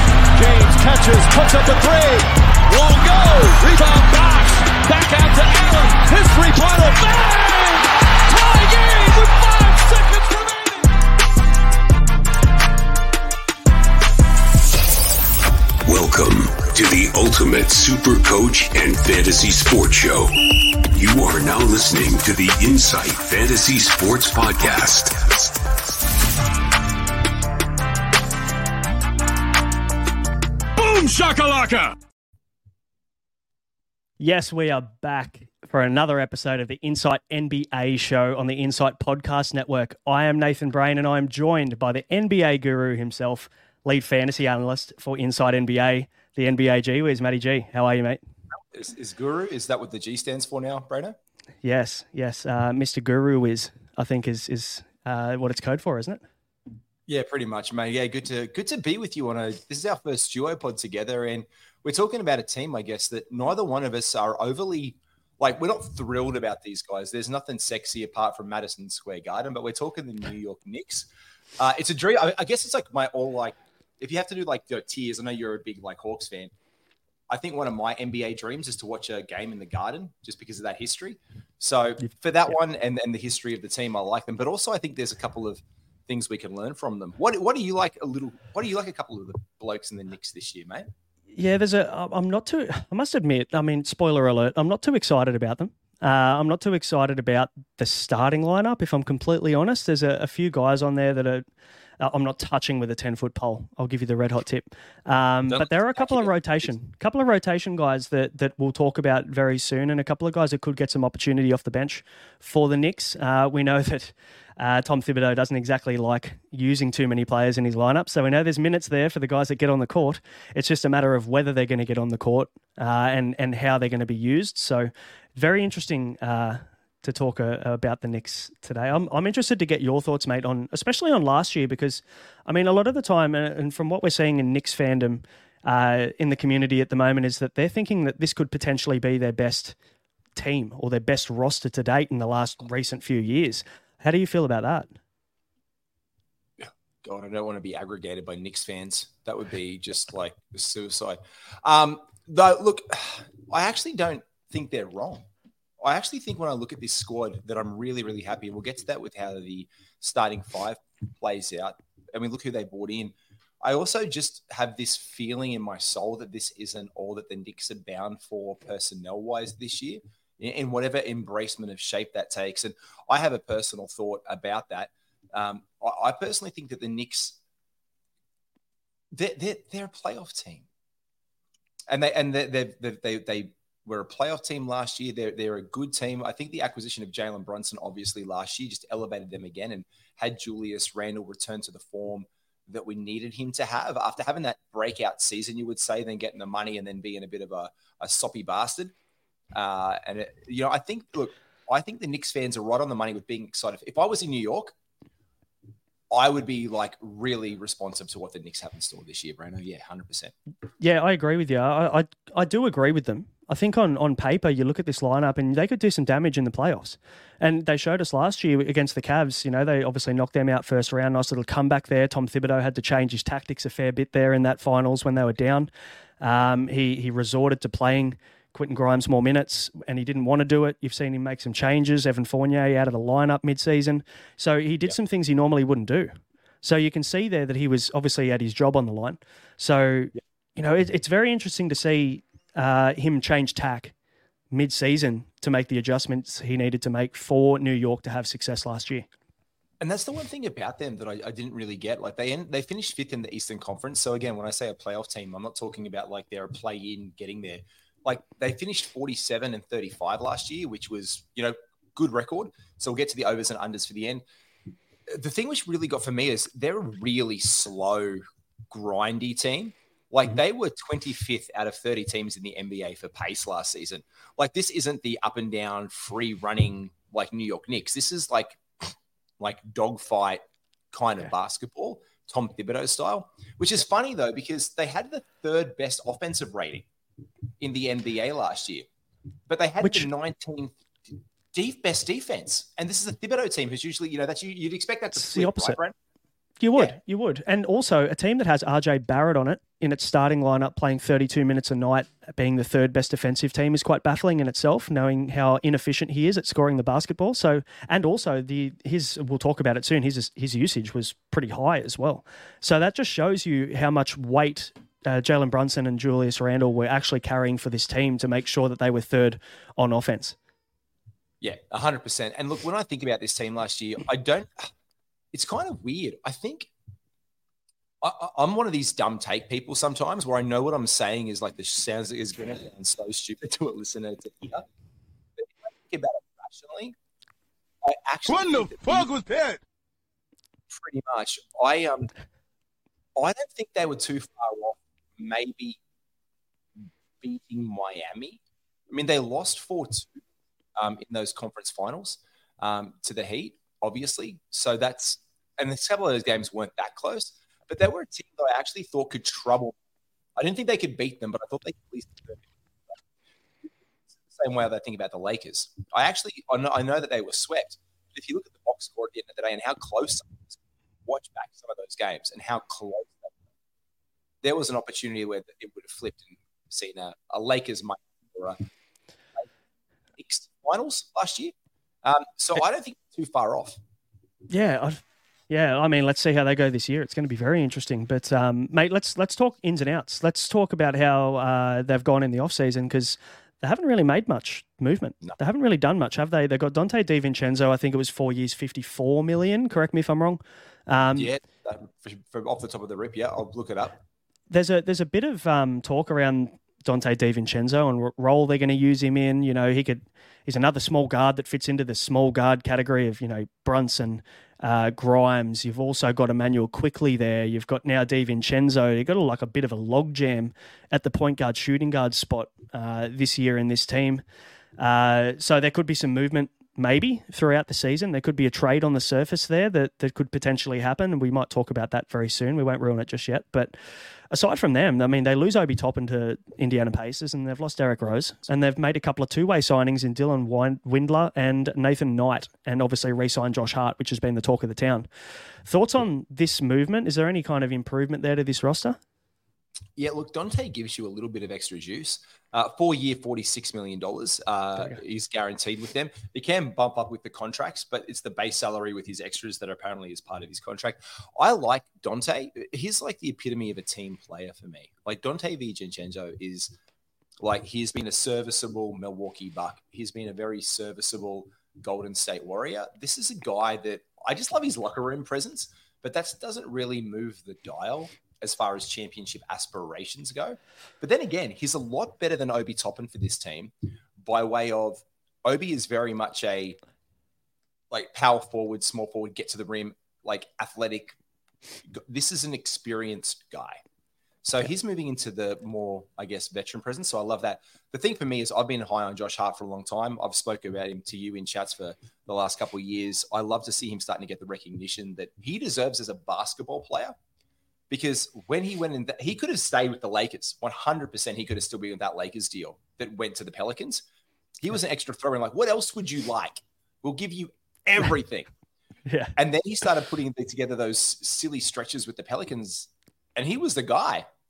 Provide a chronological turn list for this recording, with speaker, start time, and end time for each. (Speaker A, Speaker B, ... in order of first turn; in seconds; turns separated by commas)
Speaker A: 0.3-10.9, Speaker B: 15.9-20.3, Speaker C: 15.9-18.5, Speaker C: 19.1-20.2, Speaker B: 20.9-25.5, Speaker C: 21.0-21.3, Speaker C: 22.0-23.9, Speaker A: 30.8-32.0, Speaker D: 34.2-48.2, Speaker E: 48.7-51.2, Speaker D: 51.6-56.2, Speaker E: 57.1-76.5, Speaker E: 77.3-90.9, Speaker D: 91.3-101.5, Speaker D: 102.0-139.8, Speaker E: 105.5-106.7, Speaker D: 140.4-144.9, Speaker E: 146.6-155.3, Speaker E: 155.8-177.4, Speaker E: 179.1-180.7, Speaker E: 181.9-198.9, Speaker E: 199.5-204.7, Speaker E: 206.1-210.3, Speaker D: 210.8-243.9, Speaker D: 244.5-249.1, Speaker E: 249.8-264.2, Speaker E: 265.1-286.9, Speaker E: 287.6-288.9, Speaker E: 289.5-295.9, Speaker D: 289.8-290.1, Speaker D: 295.2-295.8, Speaker D: 296.6-320.4, Speaker E: 321.4-324.7, Speaker E: 325.3-326.7, Speaker E: 328.0-334.6, Speaker E: 335.4-336.9, Speaker E: 337.8-339.1, Speaker C: 338.3-339.6, Speaker E: 340.7-342.1, Speaker E: 343.2-345.8, Speaker E: 347.2-350.2, Speaker E: 350.8-359.8, Speaker E: 360.4-362.9, Speaker E: 364.2-373.4, Speaker E: 374.4-378.6, Speaker E: 380.2-383.8, Speaker D: 384.5-401.3, Speaker E: 401.1-404.0, Speaker D: 404.5-424.2, Speaker D: 424.8-433.8, Speaker D: 434.3-445.1, Speaker D: 445.6-449.0, Speaker E: 450.0-466.7, Speaker E: 467.4-486.8, Speaker E: 487.9-491.2, Speaker E: 491.9-493.8, Speaker E: 494.4-507.1, Speaker E: 507.9-514.0, Speaker E: 514.6-518.5, Speaker D: 519.1-519.4, Speaker E: 519.4-524.3